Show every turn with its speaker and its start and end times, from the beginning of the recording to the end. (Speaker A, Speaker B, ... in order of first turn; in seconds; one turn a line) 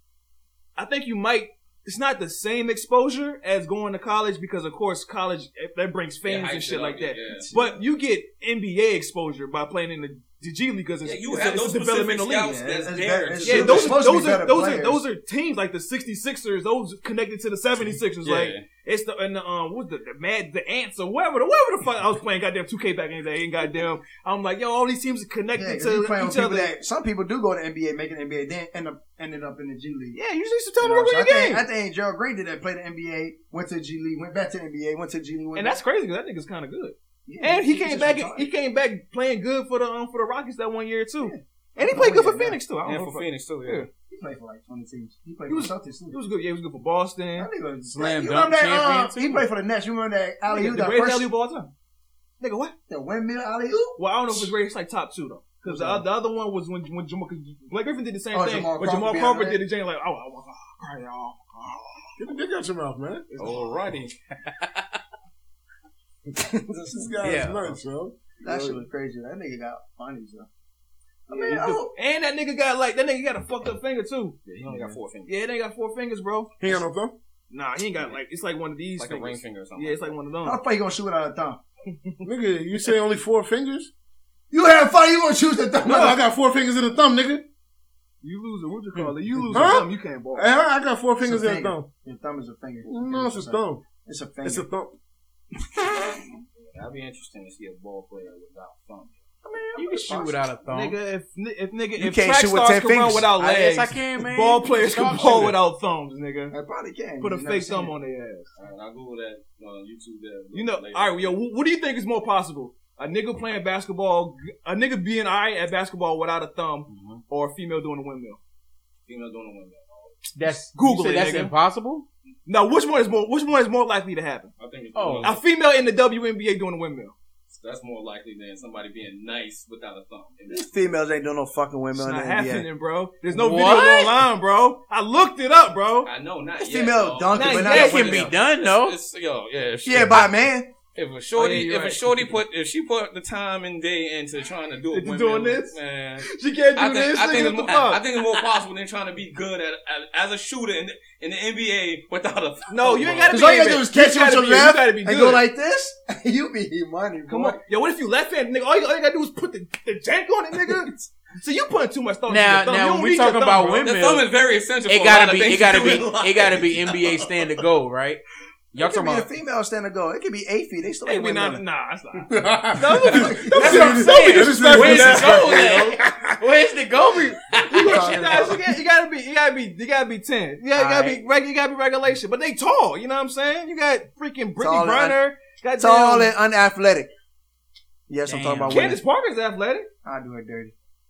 Speaker A: 0.8-12.6
Speaker B: 6.2-7.5
Speaker C: 7.4-7.8
Speaker B: 11.0-14.0
Speaker C: 12.4-15.0
Speaker D: 12.9-14.1
Speaker A: 13.4-26.7
Speaker B: 18.2-18.6
Speaker C: 25.5-30.2
Speaker A: 30.1-31.6
Speaker C: 30.8-35.8
Speaker A: 35.5-43.9
Speaker C: 37.2-38.5
Speaker C: 41.2-42.6
Speaker B: 42.8-43.9
Speaker C: 44.1-46.2
Speaker A: 45.5-47.5
Speaker C: 47.4-51.3
Speaker D: 47.9-49.4
Speaker A: 50.5-51.7
Speaker A: 52.4-52.7
Speaker C: 52.9-54.5
Speaker A: 54.0-62.2
Speaker C: 55.6-56.0
Speaker C: 58.3-59.6
Speaker E: 62.2-63.3
Speaker A: 63.3-64.1
Speaker D: 63.5-63.7
Speaker D: 64.3-64.9
Speaker C: 66.4-67.1
Speaker E: 66.7-68.8
Speaker D: 67.2-67.8
Speaker C: 68.4-70.5
Speaker C: 71.3-71.9
Speaker A: 71.3-74.4
Speaker B: 74.5-75.3
Speaker C: 74.6-75.0
Speaker A: 75.2-76.8
Speaker E: 76.6-77.1
Speaker A: 77.5-80.6
Speaker B: 79.0-80.1
Speaker C: 80.4-81.6
Speaker E: 82.2-83.9
Speaker C: 84.5-86.2
Speaker E: 85.8-87.4
Speaker A: 88.2-90.5
Speaker E: 88.9-91.9
Speaker C: 91.2-94.7
Speaker E: 92.8-93.8
Speaker E: 94.4-94.9
Speaker C: 95.7-96.2
Speaker B: 96.7-99.2
Speaker C: 99.4-100.4
Speaker A: 99.7-106.5
Speaker D: 99.8-101.0
Speaker C: 102.0-103.3
Speaker D: 103.3-105.6
Speaker C: 106.5-107.9
Speaker A: 107.2-108.5
Speaker B: 108.5-111.3
Speaker A: 110.5-118.4
Speaker B: 116.9-117.2
Speaker D: 116.9-117.2
Speaker B: 119.0-120.2
Speaker D: 120.3-122.0
Speaker A: 120.7-121.5
Speaker A: 122.5-124.5
Speaker B: 124.6-125.4
Speaker D: 124.9-125.4
Speaker A: 125.2-127.1
Speaker B: 127.5-130.9
Speaker C: 130.5-132.7
Speaker A: 131.9-136.1
Speaker D: 133.3-134.2
Speaker B: 136.0-140.4
Speaker C: 136.6-138.3
Speaker A: 137.3-138.2
Speaker D: 137.5-139.0
Speaker C: 139.8-140.7
Speaker B: 140.9-153.4
Speaker A: 141.3-142.0
Speaker A: 144.9-148.0
Speaker A: 152.7-155.5
Speaker C: 153.3-157.6
Speaker A: 157.3-163.9
Speaker D: 162.3-164.3
Speaker B: 163.8-166.9
Speaker D: 164.9-168.2
Speaker D: 168.7-169.3
Speaker C: 168.8-171.6
Speaker A: 171.0-175.7
Speaker E: 172.3-176.0
Speaker C: 173.4-173.9
Speaker D: 173.5-178.6
Speaker A: 177.0-186.3
Speaker C: 177.7-178.6
Speaker D: 180.7-181.2
Speaker C: 184.6-185.2
Speaker C: 185.8-187.1
Speaker C: 188.1-189.0
Speaker D: 188.2-189.0
Speaker A: 188.7-189.9
Speaker C: 190.0-190.7